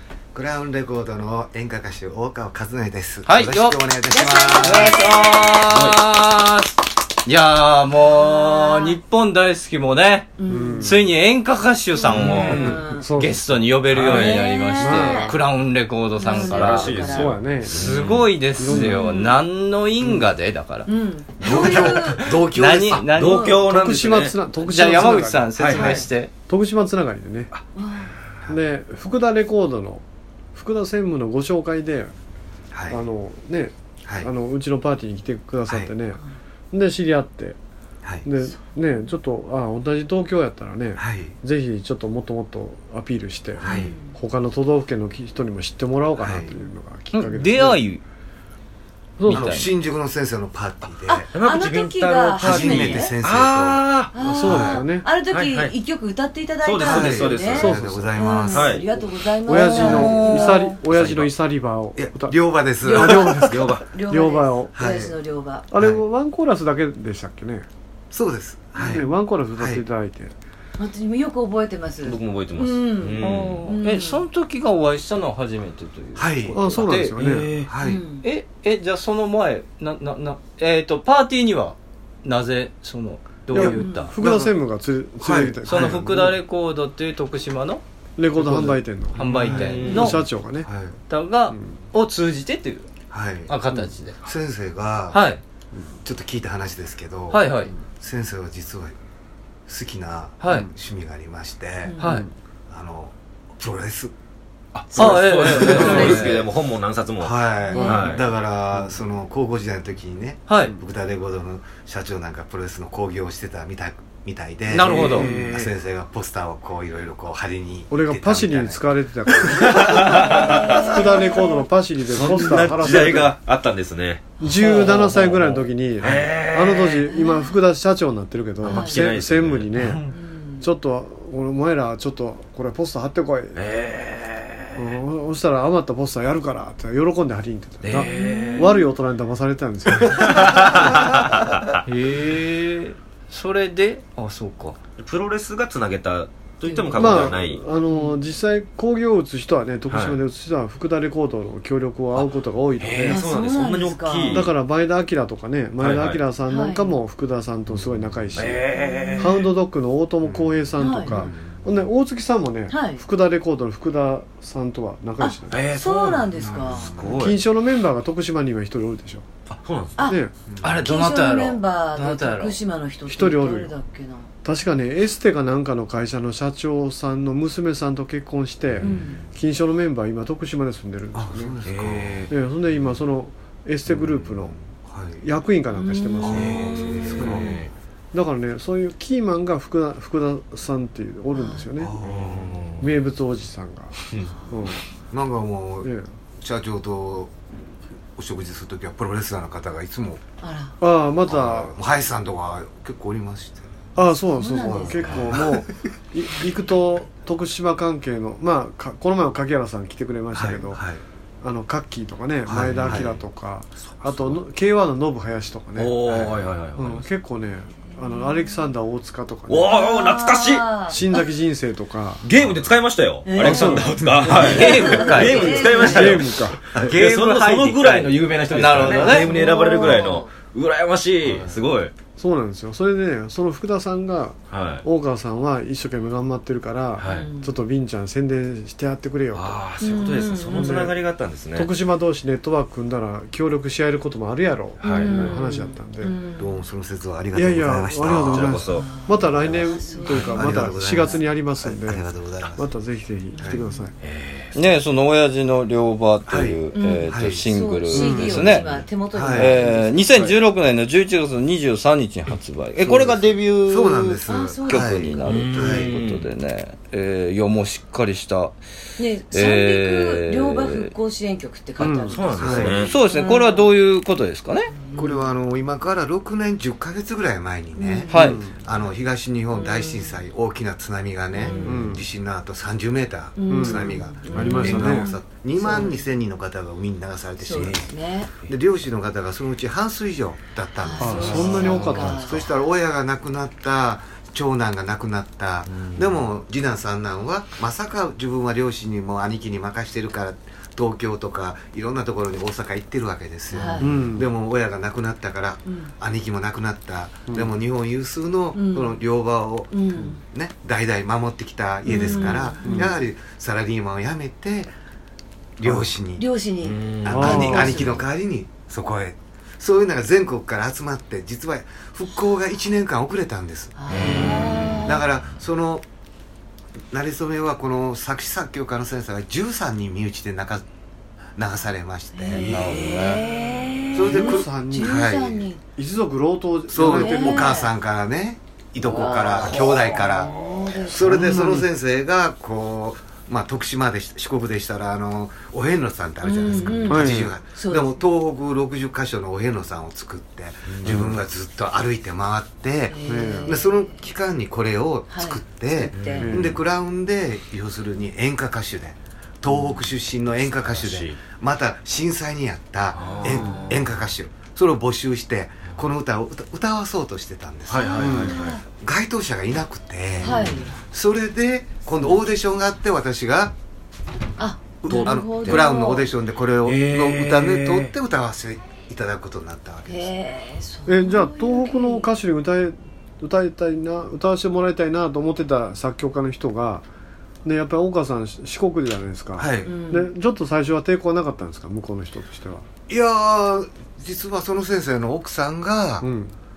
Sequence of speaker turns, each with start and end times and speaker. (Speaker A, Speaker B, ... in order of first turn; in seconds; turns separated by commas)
Speaker A: 0.3-5.0, Speaker B: 3.3-3.8, Speaker C: 4.1-5.6, Speaker B: 4.6-10.3, Speaker D: 5.6-6.1, Speaker C: 8.0-9.0, Speaker C: 10.4-10.9, Speaker E: 10.5-11.0, Speaker B: 10.8-16.9, Speaker C: 12.0-13.0, Speaker D: 12.1-12.8, Speaker E: 12.2-13.6, Speaker D: 13.9-14.5, Speaker C: 14.1-15.3, Speaker E: 14.8-15.4, Speaker C: 16.2-17.4, Speaker D: 16.4-18.4, Speaker E: 17.0-17.9, Speaker B: 17.7-20.9, Speaker E: 18.6-19.0, Speaker C: 18.7-19.3, Speaker C: 20.9-22.3, Speaker A: 21.4-23.1, Speaker B: 21.5-21.7, Speaker B: 22.4-23.5, Speaker D: 22.9-24.4, Speaker C: 23.2-23.6, Speaker E: 23.6-25.8, Speaker B: 24.6-26.3, Speaker D: 25.6-25.9, Speaker C: 25.7-26.1, Speaker E: 26.5-27.5, Speaker C: 27.8-28.1, Speaker E: 28.5-32.1, Speaker A: 32.7-33.0, Speaker E: 32.9-37.6, Speaker A: 35.7-35.9, Speaker E: 38.2-47.8, Speaker A: 41.0-41.4, Speaker A: 43.6-43.9, Speaker C: 43.7-44.1, Speaker A: 46.2-46.5, Speaker B: 47.1-48.0, Speaker E: 49.2-49.6, Speaker B: 49.2-49.7, Speaker A: 49.3-51.3, Speaker C: 51.1-53.1, Speaker D: 51.3-55.7, Speaker A: 52.4-53.8, Speaker C: 54.1-60.7, Speaker E: 54.2-55.1, Speaker A: 54.5-54.8, Speaker D: 56.6-58.9, Speaker A: 56.8-58.7, Speaker E: 59.5-64.7, Speaker B: 59.6-60.7, Speaker D: 59.8-61.3, Speaker A: 62.0-63.5, Speaker C: 62.8-65.7, Speaker D: 63.5-63.9, Speaker A: 64.8-65.1, Speaker E: 65.7-67.7, Speaker A: 65.7-66.0, Speaker A: 68.1-69.8, Speaker C: 68.8-69.0, Speaker E: 68.8-70.3, Speaker C: 70.8-74.2, Speaker D: 72.0-73.7, Speaker B: 73.2-77.2, Speaker A: 76.2-76.6, Speaker E: 76.5-77.5, Speaker D: 77.2-77.7, Speaker A: 77.7-78.0, Speaker C: 77.8-78.2, Speaker B: 78.2-84.1, Speaker E: 83.5-86.4, Speaker C: 83.5-84.1, Speaker A: 84.2-84.5, Speaker A: 85.2-85.6, Speaker B: 85.7-87.8, Speaker E: 88.2-90.7, Speaker B: 88.3-90.2, Speaker A: 89.3-89.9, Speaker D: 89.3-90.3, Speaker A: 90.6-91.0, Speaker B: 91.1-92.9, Speaker E: 91.5-91.7, Speaker A: 93.1-93.5, Speaker B: 93.5-94.2, Speaker A: 94.2-95.2, Speaker B: 95.1-95.4, Speaker A: 96.0-98.9, Speaker B: 97.3-97.7, Speaker A: 99.7-102.0, Speaker B: 100.4-100.7, Speaker C: 101.8-102.2, Speaker B: 102.0-102.2, Speaker E: 102.0-102.3, Speaker A: 102.7-104.1, Speaker D: 104.7-108.2, Speaker A: 104.9-106.3, Speaker B: 104.9-106.5, Speaker A: 107.2-120.4, Speaker C: 107.7-108.2, Speaker B: 114.7-115.3, Speaker D: 114.8-115.7, Speaker E: 115.0-115.5, Speaker E: 117.9-123.4, Speaker D: 119.6-121.2, Speaker C: 120.6-121.5, Speaker D: 122.0-127.1, Speaker E: 124.4-133.6, Speaker B: 124.7-124.9, Speaker C: 127.1-127.6, Speaker C: 128.6-129.0, Speaker D: 128.6-130.1, Speaker C: 130.1-130.7, Speaker D: 133.5-134.9, Speaker E: 134.8-141.1, Speaker D: 137.8-138.7, Speaker C: 137.9-138.8, Speaker D: 140.0-141.8, Speaker B: 141.8-144.8, Speaker D: 145.0-147.6, Speaker C: 146.7-147.3, Speaker E: 147.0-153.2, Speaker C: 147.9-148.2, Speaker D: 149.9-150.2, Speaker D: 152.1-154.5, Speaker C: 153.0-154.5, Speaker E: 154.3-158.6, Speaker D: 155.8-156.2, Speaker C: 156.5-157.0, Speaker D: 157.7-159.5, Speaker C: 158.8-159.4, Speaker E: 159.2-165.6, Speaker A: 160.2-160.6, Speaker C: 160.8-161.2, Speaker D: 161.1-161.6, Speaker A: 161.2-161.4, Speaker C: 162.7-163.0, Speaker C: 165.2-166.9, Speaker D: 165.5-167.4, Speaker A: 166.4-167.1, Speaker E: 167.2-169.3, Speaker D: 169.5-170.2, Speaker E: 170.0-170.3, Speaker A: 170.5-170.8, Speaker B: 170.6-172.6, Speaker C: 170.8-174.3, Speaker E: 173.1-173.7, Speaker E: 174.4-181.5, Speaker D: 178.8-179.2, Speaker C: 178.8-179.2, Speaker A: 181.1-182.2, Speaker D: 181.6-182.3, Speaker E: 182.3-184.6, Speaker A: 183.9-185.2, Speaker E: 185.2-187.5, Speaker C: 185.7-187.5, Speaker D: 186.2-187.7, Speaker A: 186.2-187.6, Speaker E: 188.1-191.9, Speaker C: 191.3-191.7, Speaker A: 191.8-192.5, Speaker D: 192.0-192.9, Speaker E: 192.8-194.0, Speaker E: 194.5-194.8, Speaker A: 195.1-197.3, Speaker E: 195.8-196.1, Speaker A: 198.2-200.2, Speaker C: 200.4-200.7, Speaker E: 200.8-201.7, Speaker A: 201.2-203.7, Speaker E: 203.9-210.8, Speaker C: 204.4-205.3, Speaker A: 204.7-205.6, Speaker D: 205.0-205.3, Speaker A: 210.3-211.0, Speaker E: 211.4-219.7, Speaker A: 212.5-213.2, Speaker D: 212.5-213.2, Speaker D: 213.9-214.4, Speaker D: 215.8-217.1, Speaker C: 217.9-218.6, Speaker D: 219.5-220.8, Speaker C: 219.7-221.2, Speaker E: 220.9-222.2, Speaker D: 222.2-231.9, Speaker A: 222.4-222.7, Speaker C: 223.2-226.2, Speaker E: 223.4-224.4, Speaker A: 223.7-224.4, Speaker B: 224.3-225.6, Speaker E: 225.3-226.6, Speaker B: 226.8-229.3, Speaker C: 229.0-230.3, Speaker E: 232.2-239.6, Speaker D: 234.5-234.8, Speaker D: 236.9-237.3, Speaker C: 237.0-237.5, Speaker D: 239.3-241.7, Speaker C: 239.8-240.8, Speaker E: 240.6-241.0, Speaker E: 241.5-246.1, Speaker D: 244.8-245.3, Speaker C: 244.8-246.6, Speaker A: 246.4-248.6, Speaker E: 247.3-252.0, Speaker D: 248.0-249.1, Speaker C: 248.7-251.2, Speaker A: 249.2-252.7, Speaker E: 252.6-253.9, Speaker C: 253.3-253.9, Speaker A: 253.4-253.6, Speaker D: 254.0-254.6, Speaker B: 254.5-258.6, Speaker A: 256.3-257.5, Speaker C: 256.8-260.0, Speaker E: 257.9-258.3, Speaker D: 258.1-258.9, Speaker A: 259.1-259.5, Speaker B: 259.3-268.6, Speaker A: 263.7-265.9, Speaker C: 264.3-265.3, Speaker D: 265.2-266.3, Speaker C: 269.0-273.7, Speaker B: 269.3-270.9, Speaker E: 271.8-272.1, Speaker D: 271.8-273.0, Speaker A: 272.4-272.9, Speaker B: 272.8-274.7, Speaker C: 274.7-275.2, Speaker A: 274.9-287.9, Speaker C: 277.8-278.4, Speaker B: 278.1-278.4, Speaker E: 278.1-278.6, Speaker C: 279.5-280.2, Speaker C: 281.3-281.8, Speaker D: 281.4-281.9, Speaker E: 281.6-282.0, Speaker C: 283.4-286.0, Speaker E: 283.5-285.1, Speaker C: 287.4-288.3, Speaker D: 287.5-287.9, Speaker A: 288.5-314.7, Speaker C: 290.8-292.5, Speaker E: 291.0-292.3, Speaker D: 291.2-292.4, Speaker D: 295.7-296.2, Speaker C: 303.5-304.0, Speaker E: 303.6-304.3, Speaker C: 305.6-305.9, Speaker C: 308.5-309.0, Speaker C: 309.7-310.2, Speaker C: 311.8-312.9, Speaker E: 312.1-312.9, Speaker A: 315.6-316.3, Speaker C: 316.2-318.0, Speaker D: 316.6-318.0, Speaker A: 317.0-325.9, Speaker E: 317.1-317.8, Speaker C: 323.8-325.0, Speaker D: 323.9-325.0, Speaker A: 326.9-330.6, Speaker A: 331.4-332.7, Speaker C: 332.1-335.6, Speaker D: 332.3-333.7, Speaker B: 332.8-333.1, Speaker A: 333.9-335.4, Speaker E: 334.0-335.1, Speaker E: 335.8-337.6, Speaker A: 336.7-373.5, Speaker C: 336.8-337.7, Speaker D: 338.8-340.9, Speaker C: 339.0-341.2, Speaker E: 341.0-341.7, Speaker C: 346.2-347.9, Speaker D: 346.5-347.0, Speaker E: 346.9-347.3, Speaker D: 350.7-351.2, Speaker C: 352.9-354.0, Speaker E: 353.0-353.5, Speaker C: 355.1-356.2, Speaker D: 355.9-356.4, Speaker E: 356.2-356.6, Speaker D: 360.6-361.2, Speaker D: 362.9-364.0, Speaker C: 363.0-363.8, Speaker D: 367.7-368.6, Speaker C: 367.7-368.6, Speaker E: 368.0-368.4, Speaker C: 370.2-370.8, Speaker D: 370.3-370.8, Speaker C: 374.4-376.1, Speaker A: 374.8-380.1, Speaker D: 374.9-375.7, Speaker D: 376.6-377.9, Speaker C: 379.9-382.1, Speaker E: 380.9-386.9, Speaker E: 387.4-392.6, Speaker A: 389.4-389.7, Speaker C: 389.6-390.1, Speaker A: 392.9-396.1, Speaker E: 396.0-396.3